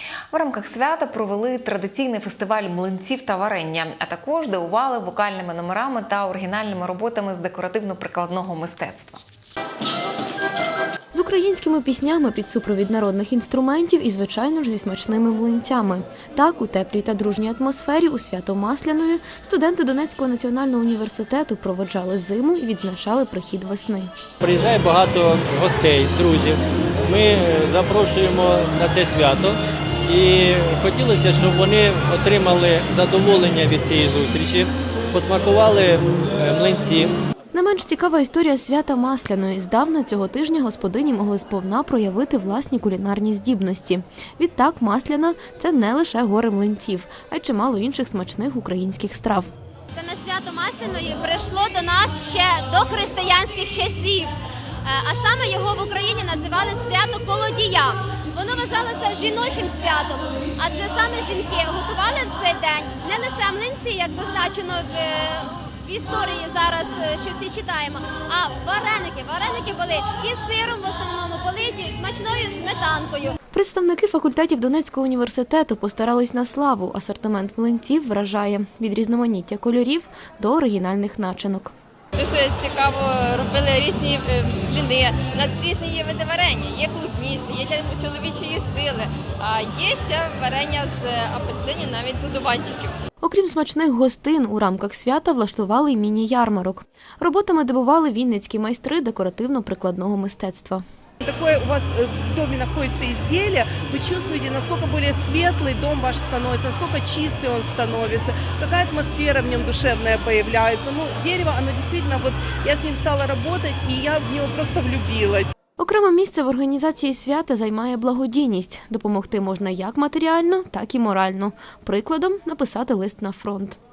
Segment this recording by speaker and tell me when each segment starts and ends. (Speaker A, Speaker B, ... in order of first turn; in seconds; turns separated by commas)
Speaker A: 0.3-9.2, Speaker B: 11.1-24.1, Speaker C: 24.4-37.2, Speaker B: 37.5-49.5, Speaker D: 49.9-54.3, Speaker D: 54.8-73.4, Speaker B: 73.5-81.7, Speaker E: 82.2-93.0, Speaker B: 93.2-100.8, Speaker F: 101.2-115.5, Speaker B: 115.8-123.8